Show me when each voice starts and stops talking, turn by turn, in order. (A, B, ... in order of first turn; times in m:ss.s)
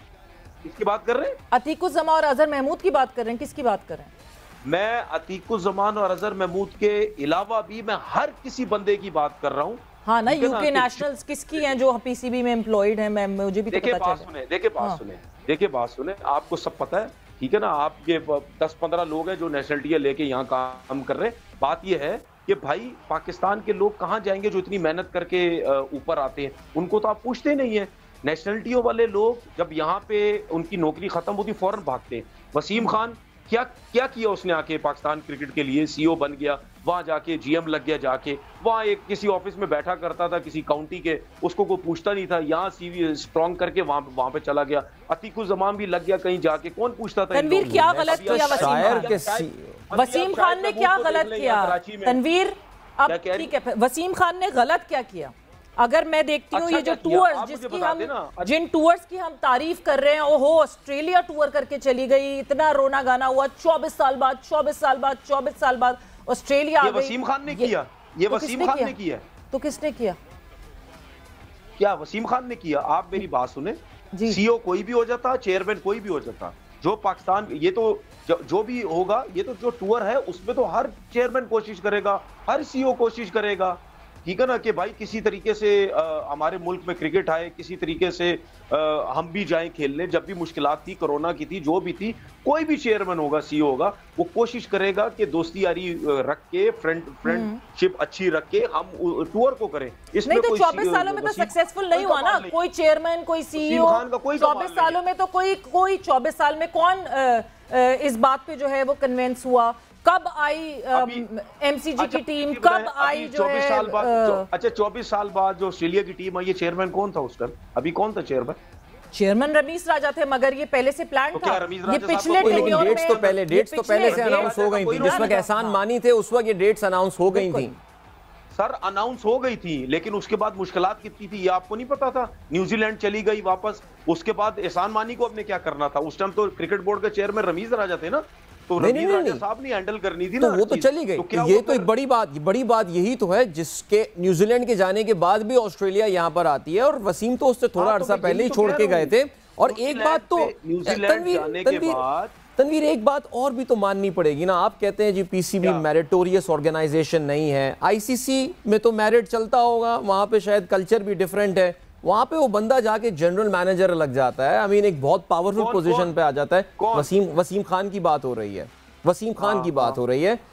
0:00.6-0:01.4 A
0:01.5-0:04.1 B
0:04.6-0:11.7 A
0:10.0-0:14.3 B
0:13.7-0:52.2 A
0:47.3-0:49.2 B
0:47.6-0:49.8 C
0:49.9-1:07.7 B
0:53.1-0:53.5 A
0:56.5-0:58.6 A
1:06.8-1:09.3 A
1:08.3-1:09.0 B
1:09.5-1:10.2 B
1:11.8-1:42.5 A
1:14.1-1:14.4 B
1:37.2-1:37.6 B
1:40.3-1:54.5 B
1:43.6-1:45.0 A
1:50.9-1:51.3 A
1:52.0-1:58.6 A
1:59.1-2:05.8 B
2:01.3-2:03.4 A
2:02.4-2:07.7 C
2:04.1-2:05.5 A
2:07.3-2:07.8 B
2:08.5-2:21.9 A
2:18.8-2:19.4 C
2:20.4-2:32.0 C
2:27.8-2:32.4 A
2:32.6-2:50.4 C
2:35.6-2:35.9 A
2:45.6-2:46.1 A
2:46.8-2:47.1 A
2:49.4-2:50.0 A